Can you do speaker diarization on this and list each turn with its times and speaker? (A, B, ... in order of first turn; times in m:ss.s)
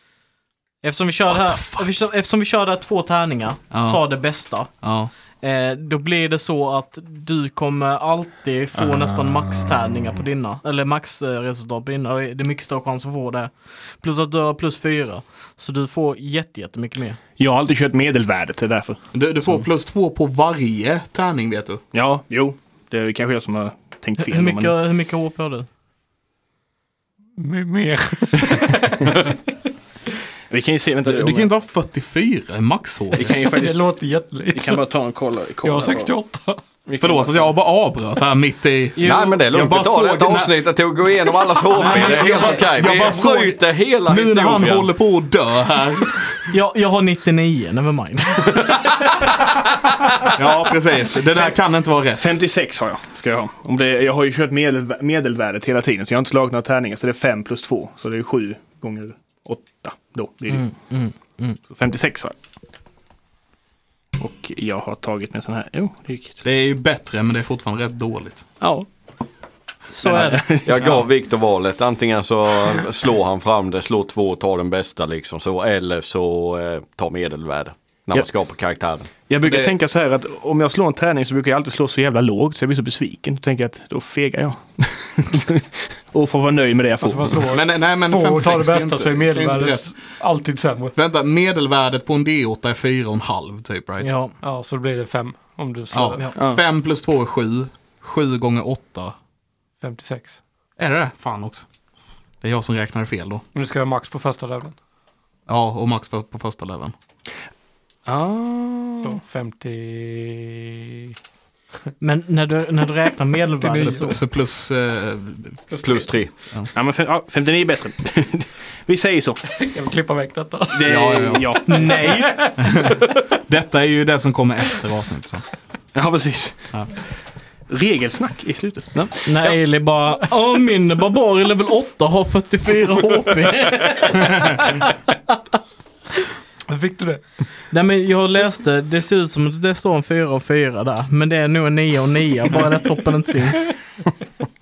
0:00.8-0:04.7 A
0:01.4-0:01.9 B
0:03.7-0:04.0 B
0:04.8-0:05.1 B
0:05.4-0:17.2 A
0:08.8-0:09.1 C
0:17.4-0:19.0 C
0:19.1-0:21.8 B
0:21.9-0:24.8 C
0:24.2-0:25.7 A
0:27.4-0:29.4 D
0:30.5-0:31.5 C
0:31.1-0:33.4 B
0:33.1-0:33.9 C
0:33.4-0:34.8 D
0:34.6-0:36.1 C
0:35.6-0:36.7 D
0:36.9-0:37.5 C
0:37.0-0:40.6 B
0:39.0-0:39.4 A
0:39.0-0:44.9 E
0:41.7-0:42.7 A
0:41.7-0:46.5 B
0:46.5-0:49.3 A
0:50.4-0:52.4 B
0:52.2-1:00.8 C
1:00.5-1:01.6 A
1:01.6-1:02.4 C
1:04.2-1:06.4 C
1:06.4-1:08.5 B
1:08.6-1:08.9 C
1:09.9-1:10.5 A
1:10.0-1:11.0 C
1:10.6-1:19.7 E
1:19.3-1:27.5 C
1:27.0-1:31.0 D
1:27.5-1:30.2 B
1:31.0-1:34.1 B
1:34.0-1:34.4 A
1:34.4-1:36.3 D
1:35.9-1:39.1 B
1:36.4-1:36.6 C
1:39.8-1:40.4 D
1:40.8-1:41.6 B
1:42.4-1:43.4 B
1:43.5-1:44.8 D
1:45.5-1:46.9 B
1:48.0-1:49.2 C
1:49.0-1:51.2 D
1:52.0-1:54.2 A
1:53.6-1:54.1 D
1:53.8-1:55.6 B
1:55.7-1:56.0 D
1:55.8-1:56.3 E
1:56.7-1:59.4 C
1:59.5-2:01.0 D
2:00.7-2:02.0 C
2:00.8-2:01.9 B
2:01.7-2:02.4 A
2:01.9-2:02.9 D
2:02.6-2:05.5 B
2:05.9-2:06.8 C
2:07.7-2:09.4 C
2:09.2-2:14.8 A
2:16.7-2:17.2 D
2:17.7-2:23.8 A